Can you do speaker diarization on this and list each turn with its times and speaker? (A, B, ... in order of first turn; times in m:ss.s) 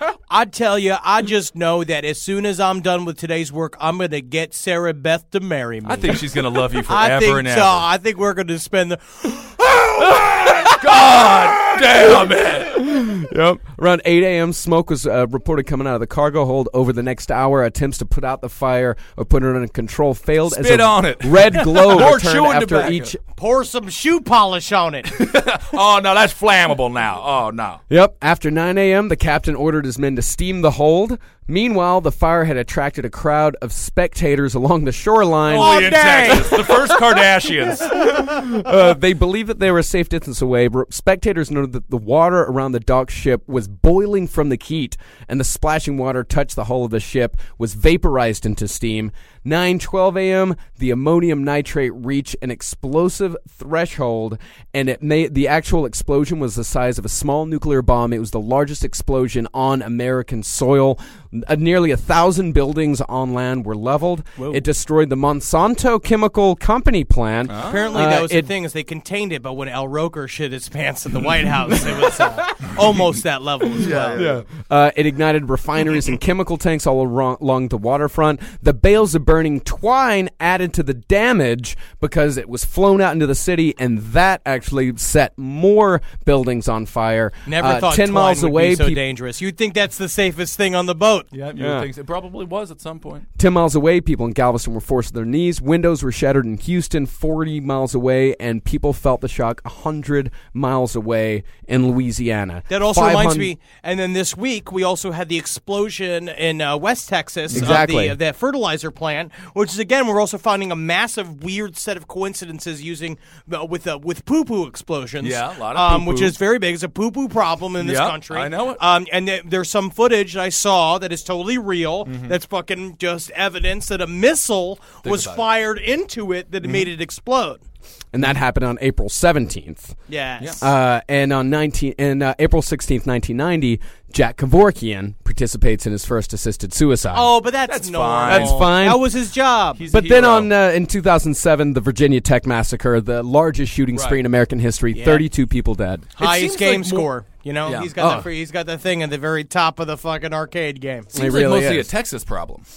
0:00.3-0:06.3 A
0:05.8-0:07.8 B
0:06.8-0:10.7 A
0:10.2-0:12.8 B
0:12.7-0:23.2 C
0:20.4-0:23.1 B
0:23.4-0:25.1 A
0:25.1-0:27.8 B
0:27.9-0:36.7 C
0:35.5-0:38.0 B
0:35.6-0:36.8 A
0:37.8-1:08.5 C
1:07.5-1:07.9 B
1:07.6-1:14.3 A
1:13.8-1:14.4 B
1:14.1-1:29.0 C
1:27.4-1:31.3 A
1:31.3-1:33.2 B
1:31.6-1:31.9 C
1:33.4-1:43.5 C
1:42.7-2:07.6 A
1:47.5-1:48.2 C
1:55.2-1:56.4 B
1:57.8-1:58.8 B
2:02.1-2:02.3 B
2:05.0-2:05.5 B
2:08.1-2:10.0 C
2:10.1-2:10.6 A
2:10.6-2:17.3 C
2:17.1-2:19.8 A
2:17.7-2:18.7 B
2:18.2-2:19.1 C
2:19.8-2:20.5 B
2:19.9-2:26.1 C
2:24.9-2:25.2 A
2:26.2-2:27.1 B
2:26.2-2:31.1 A
2:27.6-2:27.9 B
2:28.0-2:28.3 C
2:31.1-2:31.9 C
2:31.1-2:32.6 B